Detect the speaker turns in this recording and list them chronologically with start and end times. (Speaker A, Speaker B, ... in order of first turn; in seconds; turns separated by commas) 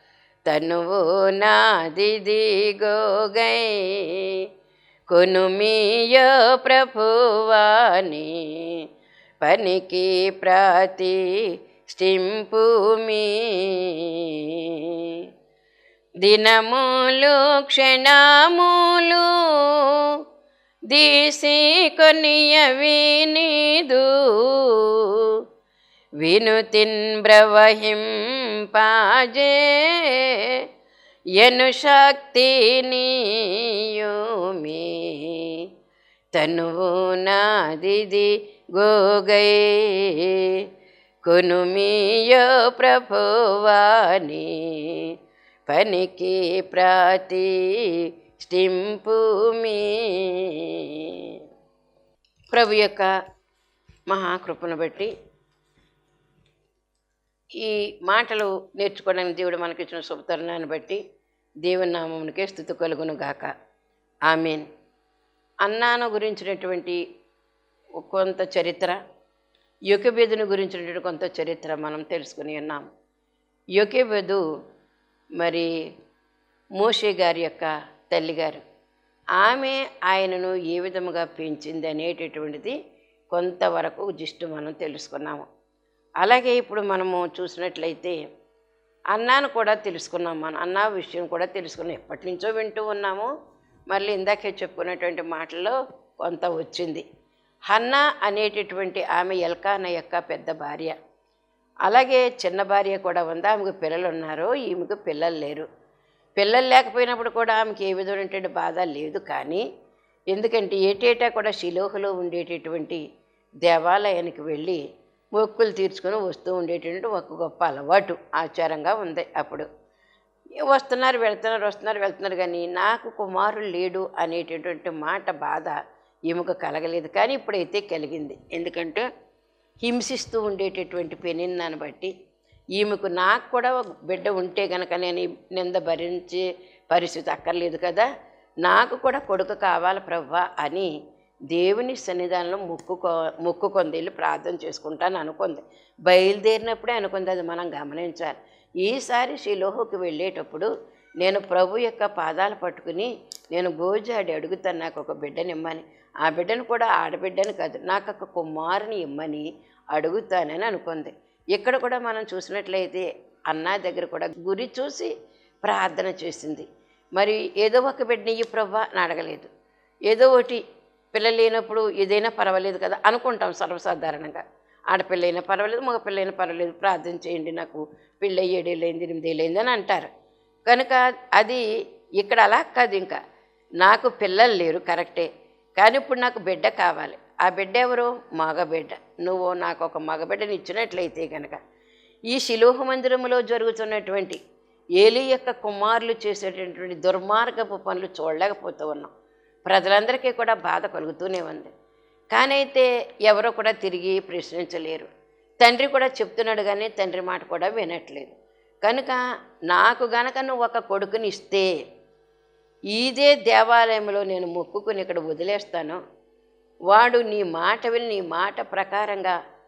Speaker A: 0.5-4.5, Speaker A: 5.1-8.9, Speaker A: 9.4-15.3, Speaker A: 16.2-20.0, Speaker A: 20.9-25.4, Speaker A: 26.2-30.6, Speaker A: 31.4-35.7, Speaker A: 36.4-40.7, Speaker A: 41.2-45.1, Speaker A: 45.7-51.4, Speaker A: 52.5-53.1, Speaker A: 54.1-55.1, Speaker A: 57.5-61.0, Speaker A: 61.6-63.5, Speaker A: 64.3-64.7, Speaker A: 65.7-67.0, Speaker A: 68.0-69.0, Speaker A: 69.9-72.9, Speaker A: 73.8-74.4, Speaker A: 75.4-75.7, Speaker A: 76.8-78.6, Speaker A: 79.4-82.8, Speaker A: 83.3-85.5, Speaker A: 86.2-88.2, Speaker A: 89.2-93.3, Speaker A: 93.9-97.0, Speaker A: 97.7-101.0, Speaker A: 101.9-105.7, Speaker A: 106.4-109.7, Speaker A: 110.3-113.0, Speaker A: 113.7-114.8, Speaker A: 115.3-119.7, Speaker A: 120.6-125.8, Speaker A: 126.3-129.1, Speaker A: 129.8-132.1, Speaker A: 132.8-138.1, Speaker A: 138.6-140.9, Speaker A: 141.5-150.7, Speaker A: 151.2-165.1, Speaker A: 165.6-169.5, Speaker A: 170.1-170.6, Speaker A: 171.1-180.1, Speaker A: 180.7-181.7, Speaker A: 182.2-183.2, Speaker A: 183.8-191.6, Speaker A: 192.3-194.4, Speaker A: 195.0-199.1, Speaker A: 199.7-201.7, Speaker A: 202.3-205.1, Speaker A: 205.6-211.7, Speaker A: 212.9-216.0, Speaker A: 216.9-219.4